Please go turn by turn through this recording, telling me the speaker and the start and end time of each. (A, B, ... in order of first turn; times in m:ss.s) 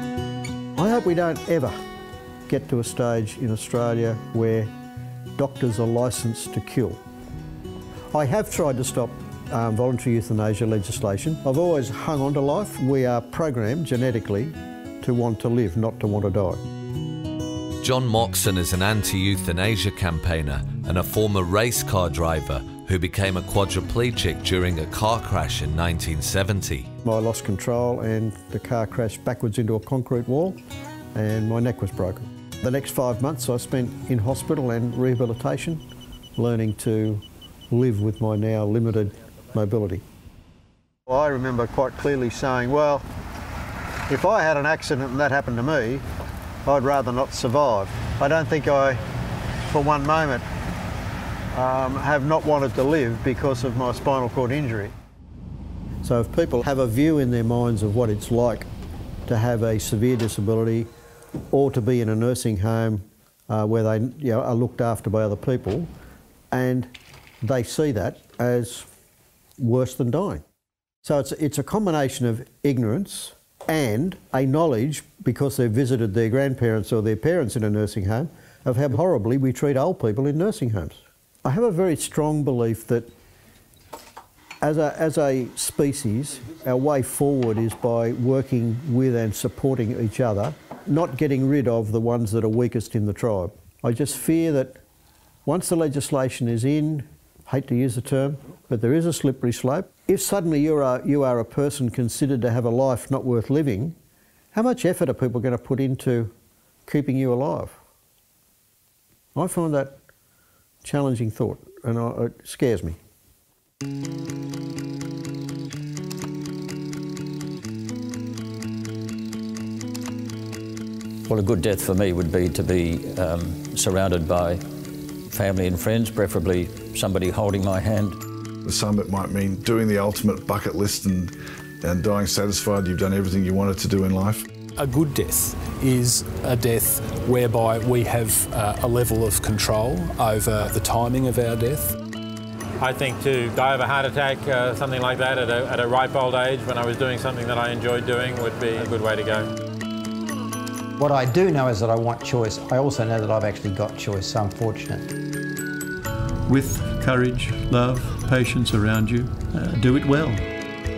0:00.8-0:01.8 A
0:02.5-0:04.7 A
0:05.4-0:07.0 A
0:08.1-0:16.6 A
0:17.8-0:26.9 B
0:27.0-0:30.6 A
0:31.1-0:35.8 A
0:36.4-0:40.0 A
0:41.1-0:43.0 A
0:44.1-0:46.0 A
0:46.6-0:49.0 A
0:49.7-0:50.4 A
0:51.5-0:54.9 A
0:56.0-0:58.7 A
0:59.2-1:00.9 A
1:01.5-1:05.9 A
1:06.5-1:08.9 A
1:09.6-1:10.4 A
1:11.0-1:23.1 A
1:24.6-1:34.8 A
1:35.4-1:44.0 A
1:44.5-1:46.3 A
1:46.9-1:47.8 A
1:49.3-1:50.0 A
1:50.8-1:53.0 A
2:01.3-2:04.6 C
2:05.3-2:08.2 C
2:08.6-2:14.4 D
2:14.8-2:22.0 E
2:22.8-2:29.5 F
2:31.0-2:35.1 G
2:36.5-2:40.5 H